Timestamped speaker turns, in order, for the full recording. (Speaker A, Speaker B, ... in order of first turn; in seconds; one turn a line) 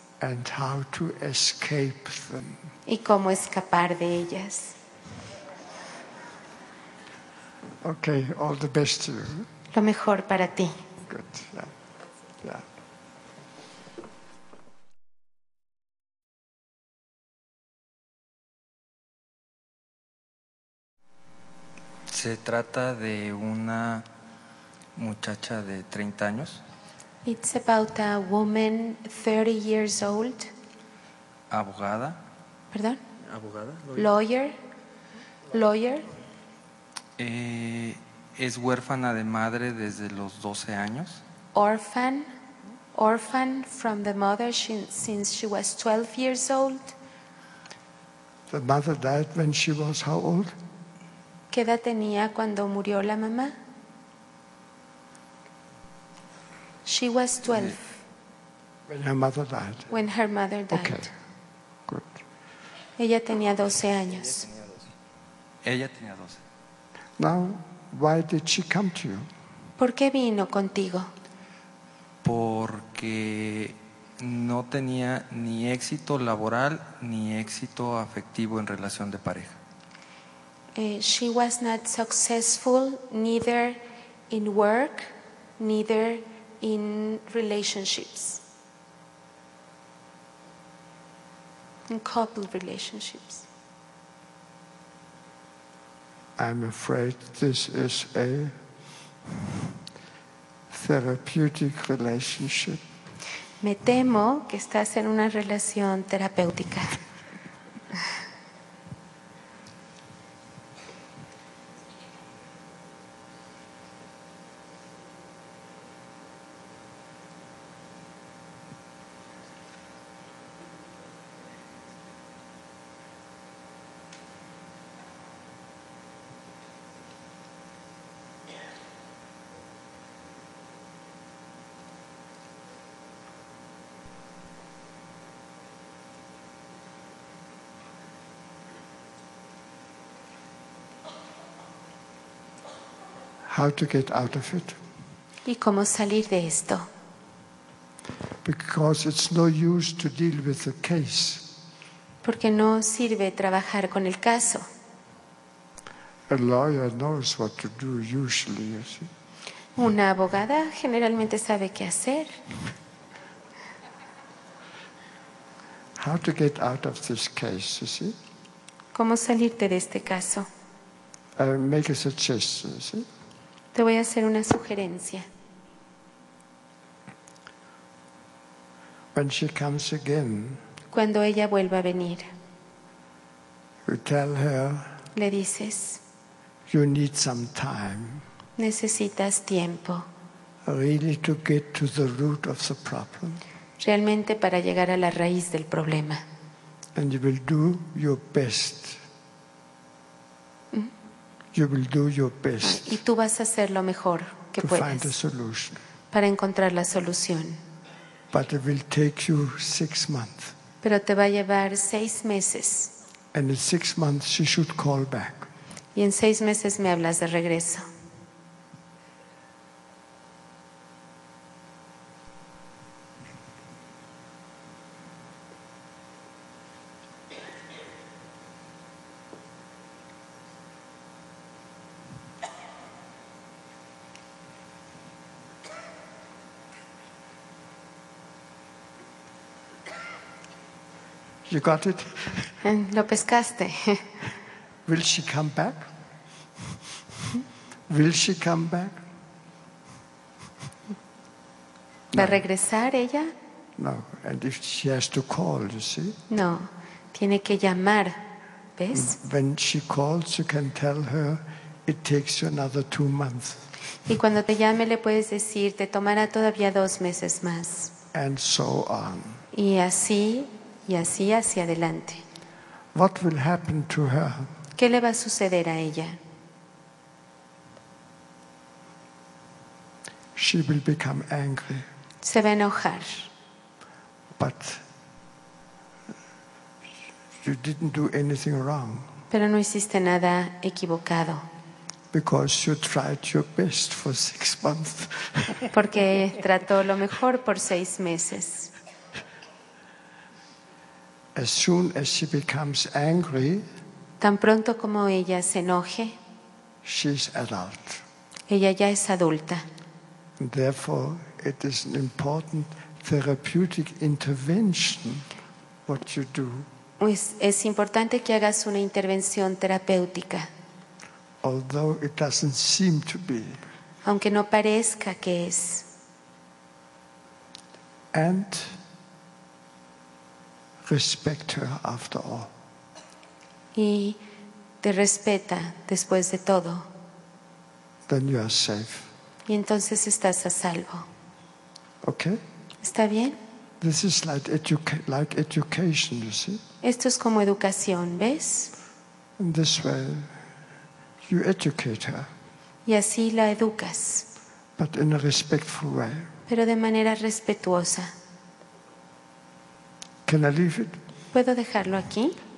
Speaker A: 0.2-2.6
Speaker B: 2.9-4.8
Speaker A: 7.8-9.5
Speaker B: 9.7-10.8
Speaker A: 11.1-11.7
Speaker C: 22.1-24.1
Speaker C: 25.0-26.6
Speaker B: 27.2-30.5
Speaker C: 31.5-32.2
Speaker B: 32.7-33.0
Speaker C: 33.3-34.0
Speaker B: 34.0-34.5
Speaker B: 35.5-36.1
Speaker C: 37.2-41.2
Speaker B: 41.5-42.3
Speaker B: 42.9-47.0
Speaker A: 48.5-50.5
Speaker B: 51.5-53.6
Speaker B: 56.9-58.0
Speaker A: 58.9-59.9
Speaker B: 59.9-61.1
Speaker A: 60.7-61.1
Speaker A: 61.9-62.2
Speaker B: 63.0-64.5
Speaker C: 65.6-66.4
Speaker A: 67.2-69.3
Speaker B: 69.8-71.1
Speaker C: 72.2-79.6
Speaker B: 80.8-83.8
Speaker B: 84.3-88.4
Speaker B: 91.9-93.5
Speaker A: 96.4-98.5
Speaker A: 100.7-102.8
Speaker B: 103.6-107.0
Speaker A: 143.5-144.8
Speaker B: 145.4-146.9
Speaker A: 148.4-151.5
Speaker B: 152.2-154.7
Speaker A: 156.3-159.1
Speaker B: 159.8-162.4
Speaker A: 166.0-168.2
Speaker B: 168.9-170.5
Speaker A: 171.4-173.1
Speaker B: 173.7-175.3
Speaker A: 179.2-180.6
Speaker B: 180.9-182.3
Speaker A: 183.9-185.0
Speaker B: 185.1-186.0
Speaker A: 186.7-188.2
Speaker B: 188.6-190.1
Speaker A: 190.6-193.4
Speaker B: 193.8-196.2
Speaker A: 196.9-199.0
Speaker A: 201.5-203.0
Speaker B: 202.6-205.1
Speaker A: 204.6-205.8
Speaker B: 206.1-207.6
Speaker A: 208.3-210.5
Speaker B: 210.8-212.9
Speaker A: 213.3-215.5
Speaker B: 215.9-217.9
Speaker A: 241.5-242.6
Speaker B: 242.6-244.2
Speaker A: 244.9-245.9
Speaker A: 247.9-249.0
Speaker A: 252.1-252.4
Speaker B: 252.2-253.3
Speaker A: 253.8-256.1
Speaker B: 256.3-258.2
Speaker B: 258.8-259.2
Speaker A: 258.9-263.7
Speaker B: 264.1-267.9
Speaker A: 268.1-269.4
Speaker B: 269.5-272.2
Speaker A: 272.9-274.5
Speaker B: 274.8-276.2
Speaker A: 280.4-281.9
Speaker B: 282.2-283.3
Speaker A: 284.4-284.8
Speaker A: 287.4-289.1
Speaker B: 289.3-291.4
Speaker A: 292.1-295.7
Speaker B: 295.7-298.7
Speaker A: 301.4-303.6
Speaker B: 304.2-306.2
Speaker A: 306.8-308.0
Speaker B: 308.5-309.7
Speaker A: 310.4-315.3
Speaker A: 315.9-316.7
Speaker B: 317.0-320.5
Speaker A: 321.4-323.6
Speaker B: 324.0-325.9
Speaker A: 328.1-328.8
Speaker A: 330.9-332.5
Speaker B: 333.8-334.2
Speaker B: 334.8-336.9
Speaker A: 338.1-339.1
Speaker B: 339.5-341.1
Speaker A: 342.0-342.4
Speaker B: 342.8-343.4
Speaker A: 343.8-346.6
Speaker B: 346.8-348.7
Speaker A: 349.4-350.4
Speaker A: 351.2-352.3
Speaker B: 352.9-354.3
Speaker A: 354.8-356.3
Speaker B: 356.5-358.1
Speaker A: 360.3-361.0
Speaker B: 361.3-362.4